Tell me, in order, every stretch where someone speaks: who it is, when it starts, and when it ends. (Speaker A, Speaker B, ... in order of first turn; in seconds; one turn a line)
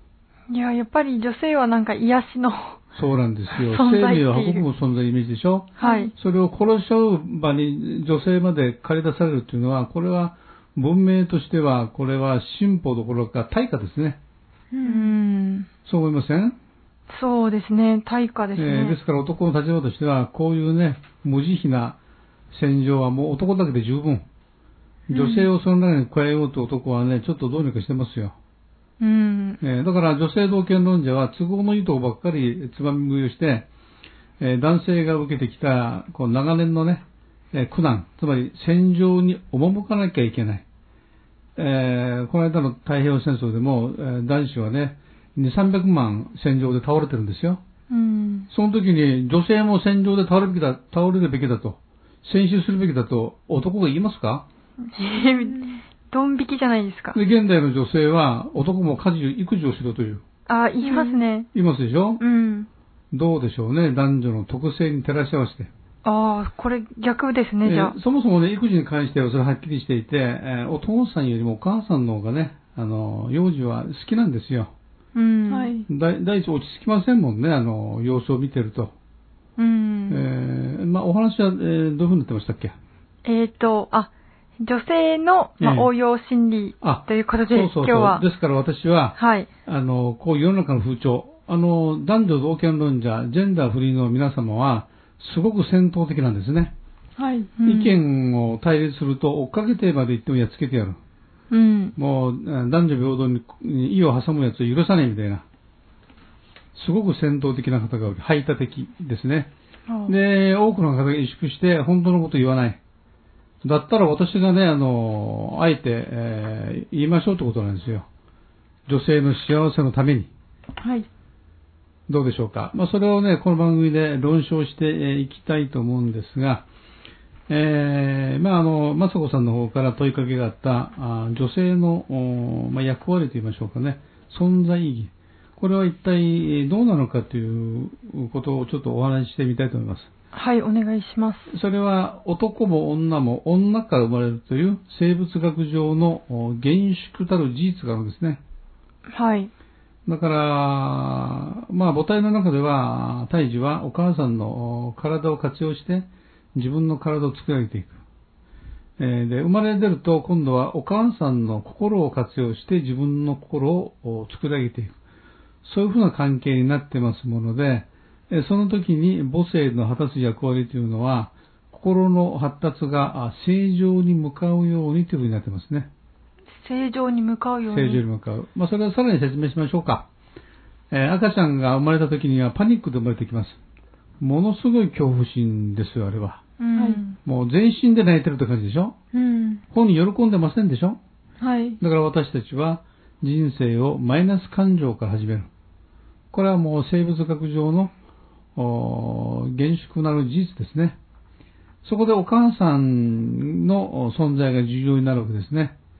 Speaker A: 0.5-2.8
Speaker B: 3.0-14.2
Speaker A: 3.5-4.7
Speaker A: 5.8-6.1
Speaker C: 5.8-6.1
Speaker C: 14.7-15.1
Speaker A: 14.8-15.7
Speaker B: 15.8-16.6
Speaker A: 17.1-19.0
Speaker B: 18.6-22.0
Speaker B: 22.5-24.2
Speaker B: 25.1-28.3
Speaker A: 25.1-25.5
Speaker A: 29.0-29.6
Speaker B: 29.6-33.7
Speaker B: 34.4-40.6
Speaker B: 41.5-47.6
Speaker A: 47.9-48.5
Speaker B: 48.5-54.5
Speaker A: 54.9-57.2
Speaker C: 55.1-55.8
Speaker B: 57.1-60.2
Speaker A: 60.5-61.5
Speaker C: 60.8-61.2
Speaker B: 61.5-62.2
Speaker A: 62.2-62.7
Speaker B: 63.1-65.7
Speaker A: 66.0-67.9
Speaker B: 67.6-74.7
Speaker A: 75.1-75.7
Speaker C: 75.5-75.9
Speaker B: 75.9-78.9
Speaker A: 79.6-80.2
Speaker B: 80.1-82.7
Speaker A: 83.2-84.1
Speaker A: 84.6-88.2
Speaker B: 85.6-85.9
Speaker B: 86.8-96.7
Speaker A: 89.2-89.5
Speaker C: 97.2-97.5
Speaker A: 97.6-98.0
Speaker B: 97.6-101.0
Speaker A: 101.5-101.9
Speaker B: 102.0-105.4
Speaker B: 106.7-109.5
Speaker A: 109.9-110.1
Speaker B: 110.1-112.8
Speaker B: 113.6-118.0
Speaker B: 118.9-120.3
Speaker C: 120.8-121.1
Speaker B: 122.1-126.7
Speaker B: 127.5-140.1
Speaker A: 140.3-141.5
Speaker B: 141.5-148.4
Speaker A: 149.1-149.5
Speaker B: 150.1-158.0
Speaker B: 159.0-164.9
Speaker B: 165.6-175.9
Speaker A: 176.6-178.0
Speaker B: 177.7-180.1
Speaker B: 180.9-183.6
Speaker B: 184.2-186.4
Speaker A: 186.6-187.2
Speaker B: 187.2-188.9
Speaker C: 189.1-189.6
Speaker B: 189.7-191.0
Speaker C: 191.4-191.8
Speaker B: 191.8-195.5
Speaker B: 196.3-197.9
Speaker B: 198.6-201.0
Speaker B: 201.8-205.7